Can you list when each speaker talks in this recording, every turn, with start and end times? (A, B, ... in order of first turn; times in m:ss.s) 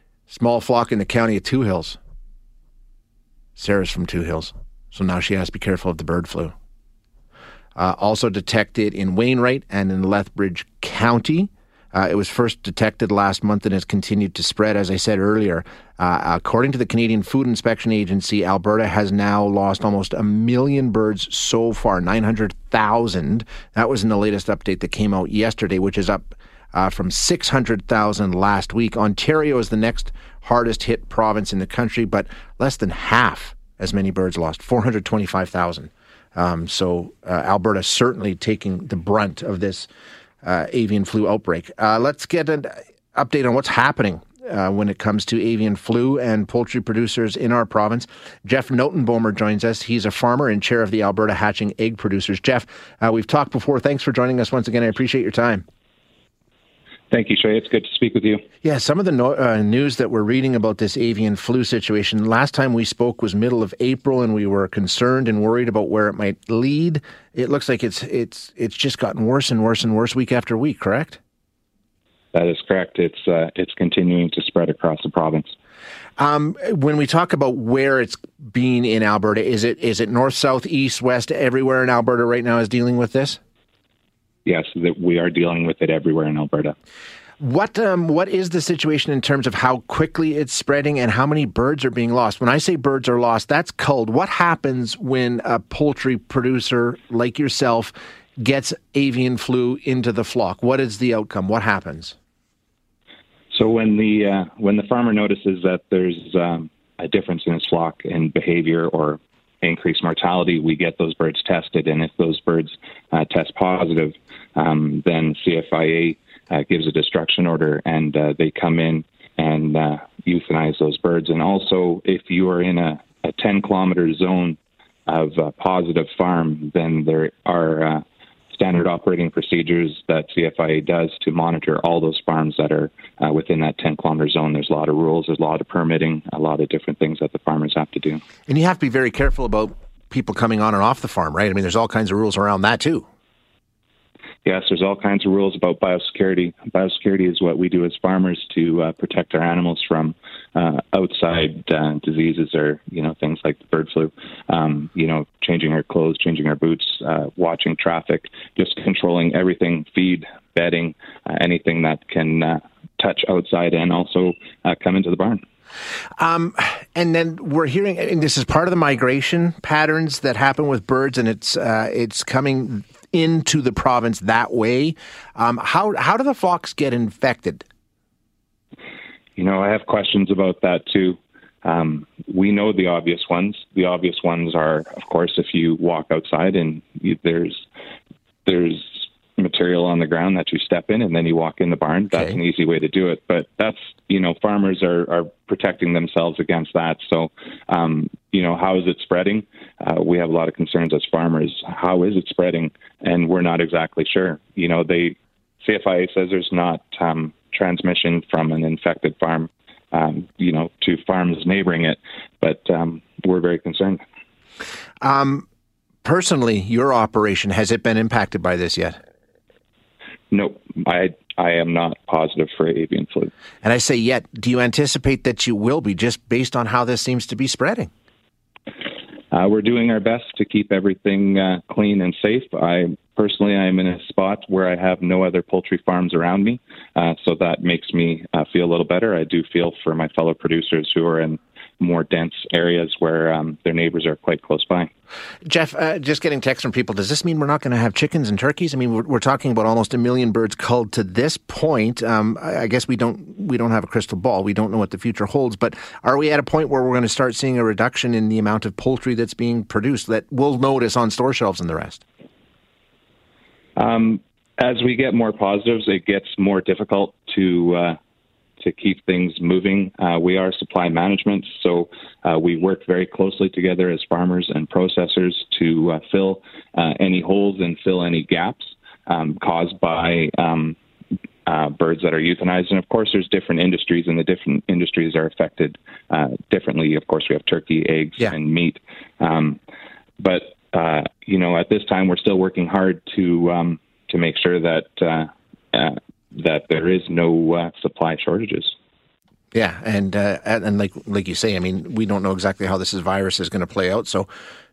0:00.3-0:02.0 A
0:03.6-0:06.5 A
0:07.8-0:39.9 A
0:40.4-0:55.6 A
0:57.1-0:58.4 B
0:58.6-1:11.2 A
1:12.3-1:15.5 B
1:16.2-1:23.4 A
1:24.4-1:26.8 B
1:27.4-1:42.2 A
1:43.5-2:18.2 B
2:18.5-2:23.1 A
2:24.4-2:45.4 B
2:46.2-2:57.6 A
2:59.4-3:07.6 B
3:08.4-3:34.0 B
3:35.0-3:35.4 A
3:36.0-3:39.0 A
3:40.3-3:43.3 B
3:43.6-3:47.9 A
3:49.3-4:04.9 B
4:05.4-4:22.0 A
4:23.8-4:28.0 B
4:28.6-4:40.8 B
4:41.4-4:49.6 B
4:50.2-4:58.7 B
4:59.5-5:04.3 A